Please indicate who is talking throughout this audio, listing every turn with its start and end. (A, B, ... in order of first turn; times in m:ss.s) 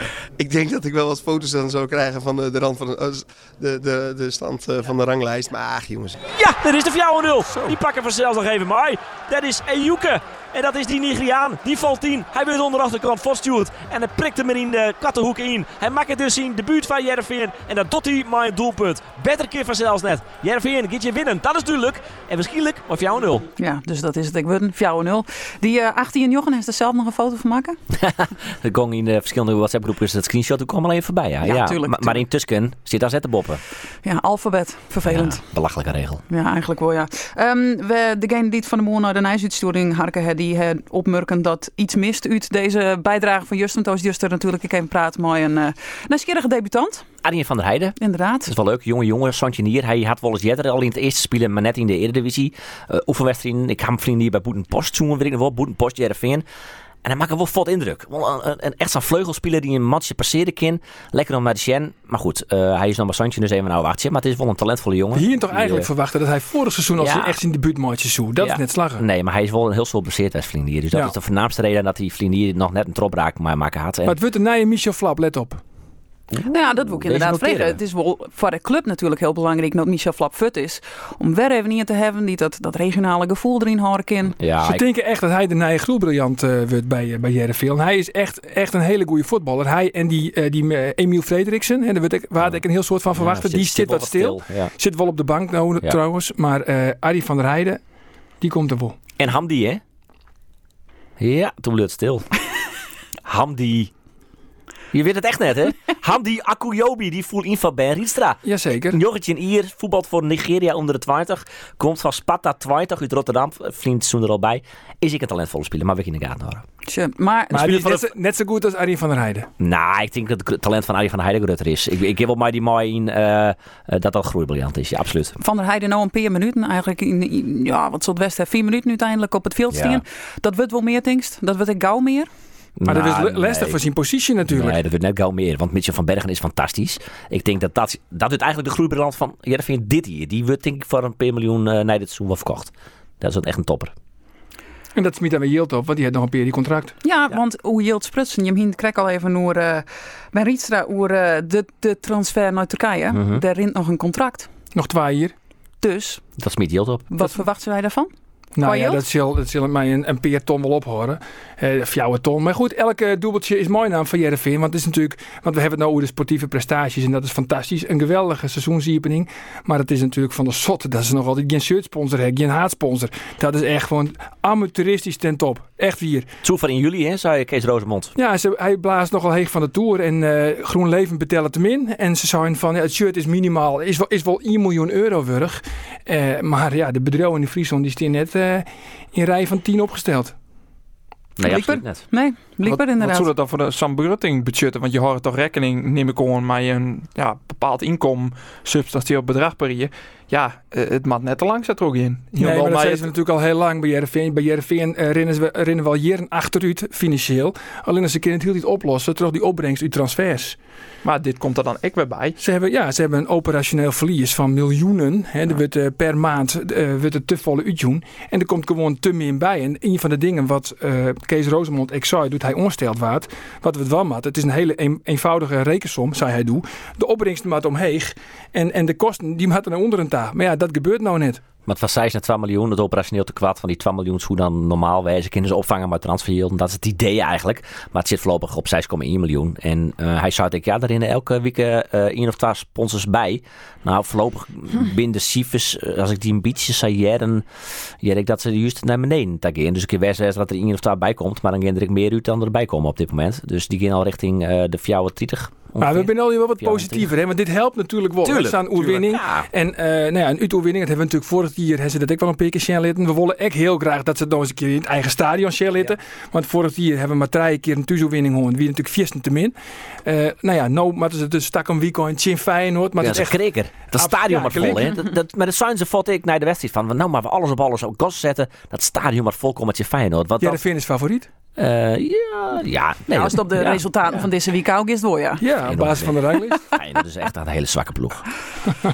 0:00.4-0:06.2 A
0:06.3-0:23.5 B
0:23.6-0:27.8 C
0:27.9-0:33.6 B
0:31.4-0:32.2 C
0:34.0-0:35.4 C
0:35.0-0:36.2 B
0:36.3-0:47.1 C
0:47.2-0:56.4 B
0:48.0-0:48.5 C
0:57.0-1:05.9 B
1:05.1-1:09.0 D
1:07.0-1:07.4 B
1:08.4-1:14.2 B
1:14.1-1:15.6 D
1:16.3-1:17.8 B
1:16.4-1:24.4 C
1:24.4-1:24.8 B
1:24.6-1:37.8 D
1:33.2-1:34.7 B
1:38.4-1:39.0 D
1:39.2-1:39.8 B
1:41.2-1:42.3 B
1:43.2-1:43.9 B
1:44.9-1:56.6 B
1:48.4-1:49.0 D
1:56.9-1:58.0 C
1:57.5-1:59.5 D
1:59.6-2:05.4 B
2:05.4-2:12.3 C
2:09.7-2:10.0 B
2:12.8-2:13.8 B
2:12.9-2:14.8 D
2:14.5-2:23.9 B
2:25.0-2:27.0 D
2:27.0-2:34.5 C
2:33.1-2:33.4 B
2:34.7-2:35.3 D
2:35.8-2:36.2 C
2:36.4-2:37.1 B
2:37.1-2:38.1 C
2:38.6-2:56.3 D
2:38.6-2:39.0 C
2:56.4-2:58.1 B
2:58.2-3:10.4 D
3:11.4-3:12.0 B
3:11.4-3:13.3 C
3:12.6-3:23.1 E
3:22.4-3:30.6 D
3:31.0-3:32.4 E
3:32.4-3:51.4 D
3:51.7-4:07.4 B
4:08.0-4:17.1 B
4:15.8-4:33.4 D
4:18.2-4:19.5 B
4:33.0-4:40.6 B
4:33.9-4:34.9 D
4:40.4-4:41.3 D
4:41.6-4:43.8 B
4:43.1-4:45.4 C
4:45.4-4:46.6 D
4:45.7-4:46.2 B
4:46.7-4:48.3 B